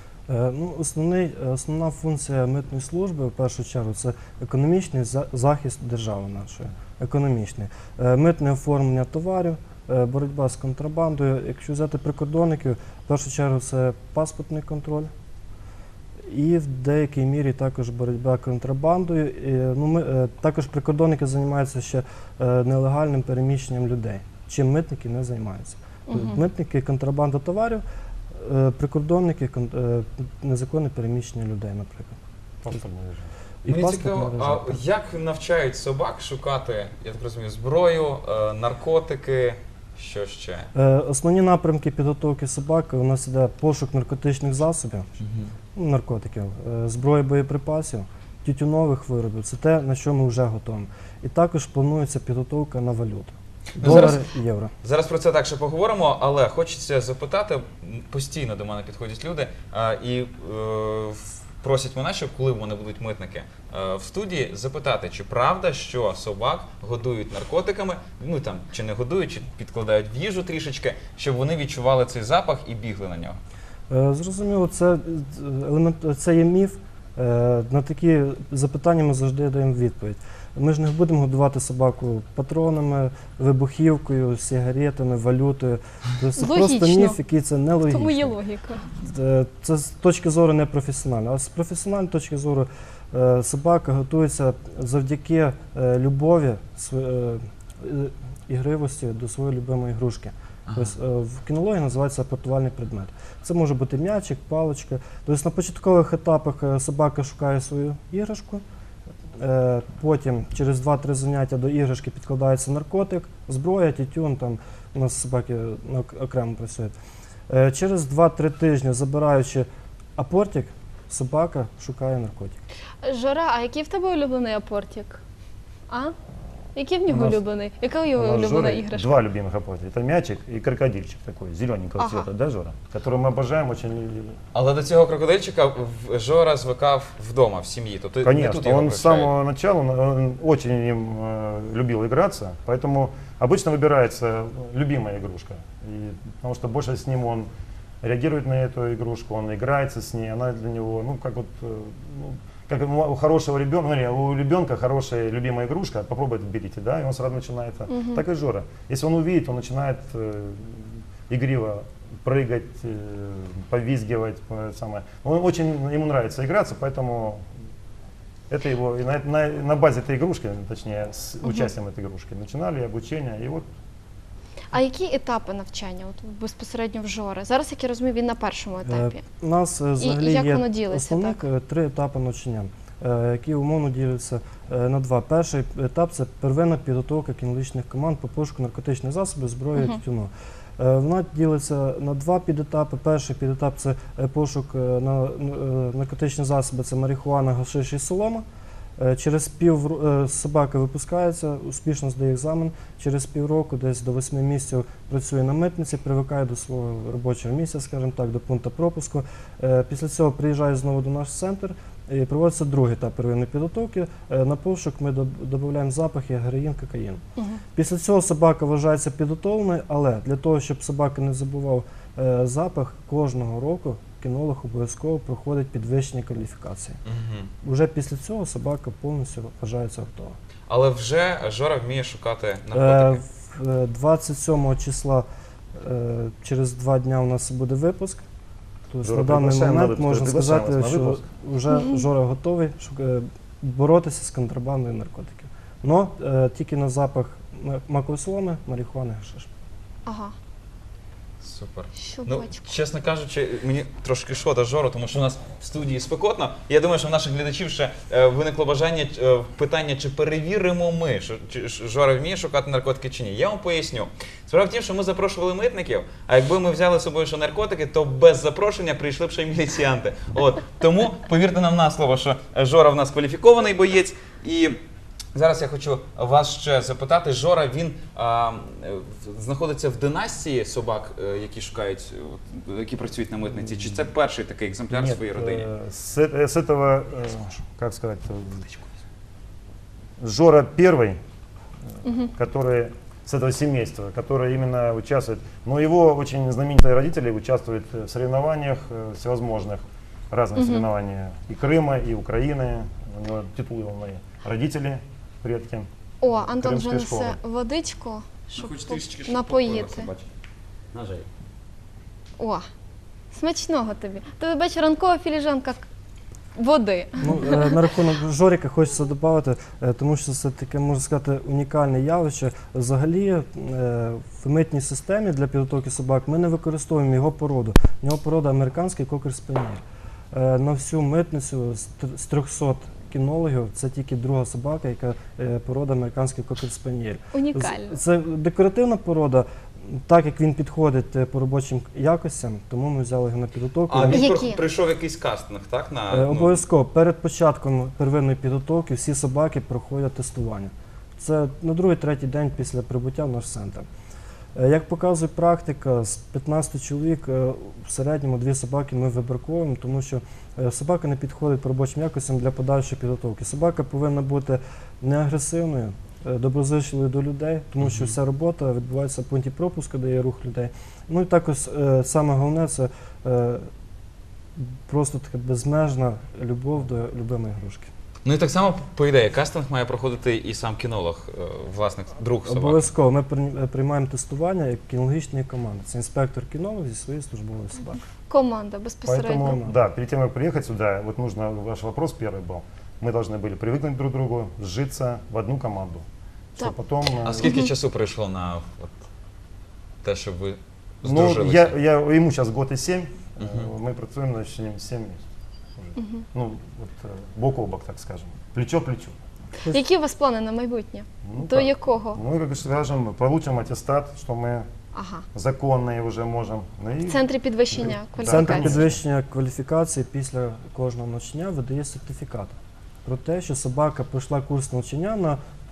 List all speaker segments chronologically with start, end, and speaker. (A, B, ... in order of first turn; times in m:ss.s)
0:00.3-0:15.1 A
0:16.3-0:27.8 A
0:26.1-0:26.4 B
0:28.4-0:32.2 A
0:32.6-0:33.3 C
0:33.6-0:34.8 A
0:33.7-0:40.7 D
0:40.7-0:45.1 A
0:45.2-0:45.5 D
0:45.8-0:54.7 A
0:53.8-0:54.2 D
0:54.8-1:13.4 D
1:13.9-1:28.4 A
1:26.4-1:27.2 B
1:27.8-1:28.8 B
1:29.0-1:48.6 A
1:40.7-1:41.0 D
1:49.4-1:57.0 A
1:57.5-2:02.6 A
2:03.0-2:05.2 B
2:05.9-2:06.1 B
2:06.8-2:09.1 B
2:07.1-2:07.4 C
2:08.2-2:14.4 C
2:12.0-2:12.3 B
2:14.5-2:19.3 D
2:18.2-2:27.5 C
2:28.0-2:47.4 C
2:37.9-2:38.2 B
2:48.5-2:53.7 C
2:54.7-2:59.2 B
2:58.8-3:18.4 A
3:00.0-3:01.4 B
3:19.0-3:37.2 A
3:37.8-3:47.0 A
3:47.0-3:47.5 D
3:47.6-3:50.4 A
3:50.7-3:53.2 D
3:52.7-3:58.2 A
3:58.9-4:09.5 A
3:59.0-4:01.2 C
4:10.1-4:10.3 B
4:11.4-4:34.8 D
4:12.0-4:12.6 B
4:35.4-4:45.7 D
4:43.7-4:44.0 C
4:44.9-4:48.8 C
4:50.2-4:51.2 C
4:52.0-4:52.3 B
4:52.4-5:07.4 C
5:00.6-5:00.9 B
5:06.2-5:10.1 B
5:08.5-5:10.2 D
5:10.9-5:11.2 D
5:13.3-5:15.9 B
5:16.6-5:17.7 B
5:17.2-5:44.3 A
5:37.3-5:38.0 B
5:43.9-5:46.6 D
5:44.1-5:44.6 B
5:46.1-5:53.9 A
5:54.6-6:13.7 A
6:07.8-6:08.2 D
6:14.6-6:17.9 A
6:18.2-6:22.9 D
6:22.5-6:28.0 A
6:28.3-6:29.6 B
6:29.1-6:36.0 C
6:29.4-6:29.8 A
6:36.6-6:37.5 C
6:37.2-6:38.9 D
6:37.4-6:37.7 B
6:40.0-6:41.8 D
6:41.0-6:45.2 C
6:43.4-6:43.7 D
6:45.8-6:49.1 C
6:46.0-6:46.2 B
6:49.7-6:52.2 B
6:51.2-6:54.7 C
6:54.9-6:55.2 B
6:55.3-6:59.0 C
6:57.1-6:58.8 B
6:58.2-7:05.4 A